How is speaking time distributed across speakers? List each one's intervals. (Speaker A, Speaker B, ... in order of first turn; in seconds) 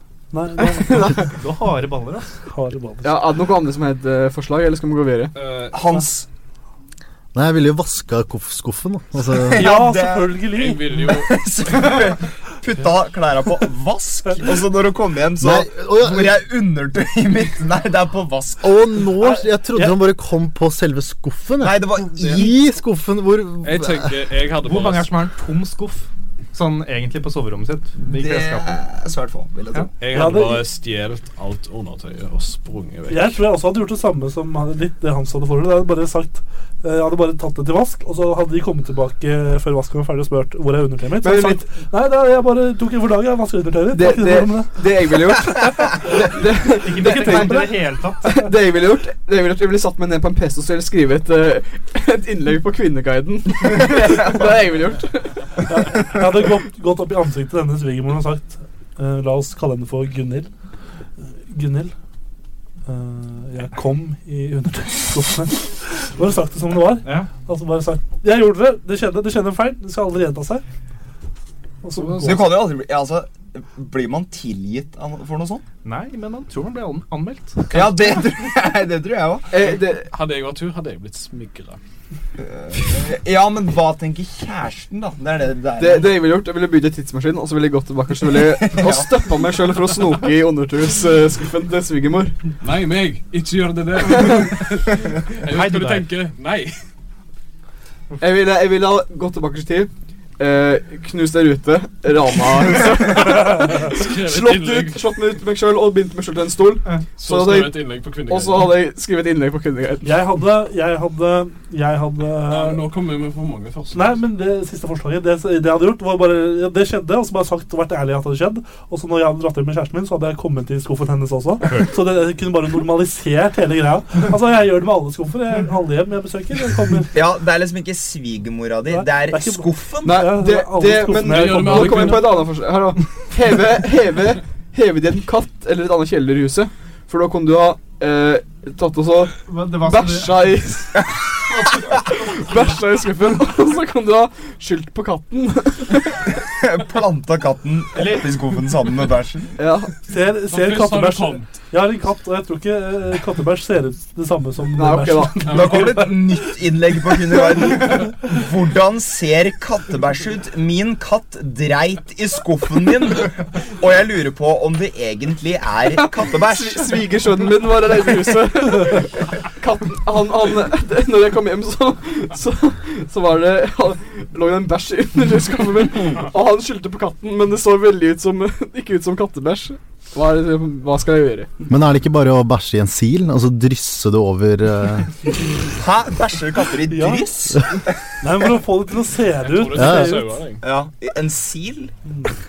Speaker A: 0.3-1.2, 2.5-3.1, 9.5-11.0, 30.1-30.6, 33.1-44.8, 47.0-47.8, 55.7-60.5, 61.5-61.9, 62.9-70.6, 71.8-72.5, 110.0-112.8, 113.9-127.2, 128.9-132.2, 150.1-156.1, 186.9-187.3, 188.2-190.4, 192.1-192.3
Speaker B: 0.7-1.3, 3.0-5.4, 41.2-41.7, 43.9-55.5, 79.5-80.1, 85.8-92.4, 98.2-110.1, 130.0-141.0, 142.2-146.2, 149.6-149.9, 154.7-155.7, 166.0-181.5
Speaker C: 1.2-2.4, 24.6-28.7, 46.8-48.4, 67.0-67.3, 75.8-77.9, 95.4-96.1, 106.8-107.1, 139.4-140.5, 141.8-142.7, 147.9-148.3
Speaker D: 5.3-6.0, 10.5-11.4, 23.6-25.1, 30.0-33.4, 79.6-81.8, 92.6-96.8, 103.7-105.0, 107.2-108.7, 112.5-114.2, 131.2-132.4, 150.5-151.6, 155.4-156.1, 189.4-190.6
Speaker E: 5.7-6.3, 9.3-19.0, 21.6-22.7, 28.0-29.9, 72.2-75.6, 77.7-79.5, 82.4-86.2, 88.2-89.3, 127.1-130.2, 146.4-149.5, 155.4-167.0, 185.7-188.0, 190.6-191.9
Speaker F: 7.3-9.8, 15.4-16.4, 18.6-24.1, 181.7-185.1, 189.7-190.2